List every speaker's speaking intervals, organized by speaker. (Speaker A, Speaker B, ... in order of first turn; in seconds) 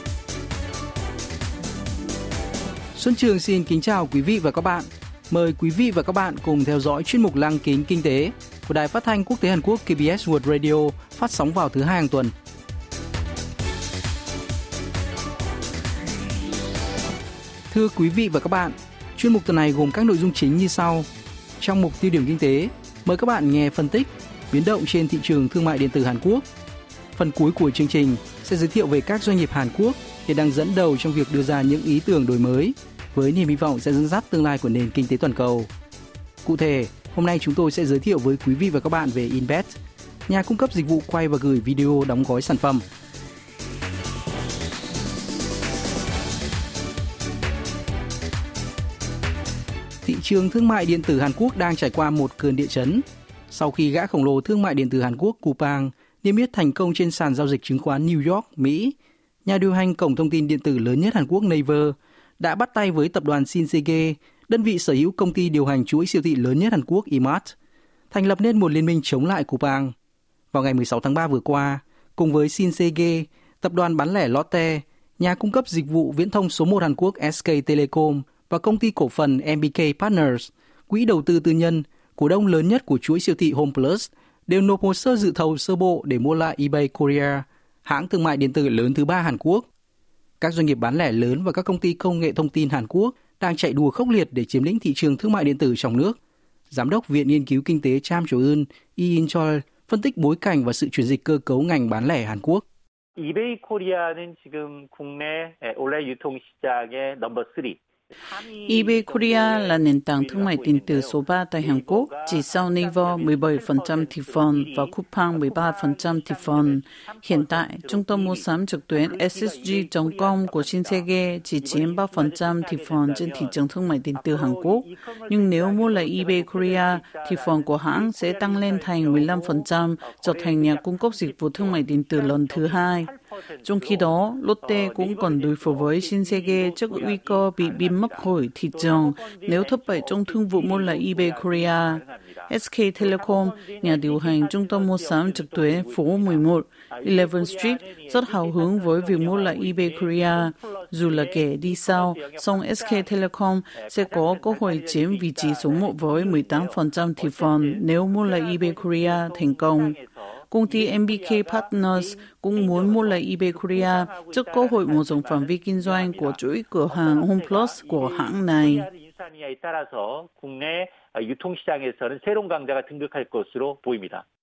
Speaker A: 3.0-12.3, 17.7-21.1, 21.6-26.4, 27.1-35.7, 36.4-42.9, 50.0-67.5, 68.1-69.9, 70.5-89.7, 90.4-96.2, 96.7-102.6
Speaker B: 103.2-107.8, 108.3-118.4, 119.0-121.1, 121.6-123.5, 124.2-134.0, 134.7-142.5, 143.0-153.0, 153.9-160.1, 160.7-174.2
Speaker C: 108.7-133.1, 133.6-160.0, 160.5-168.9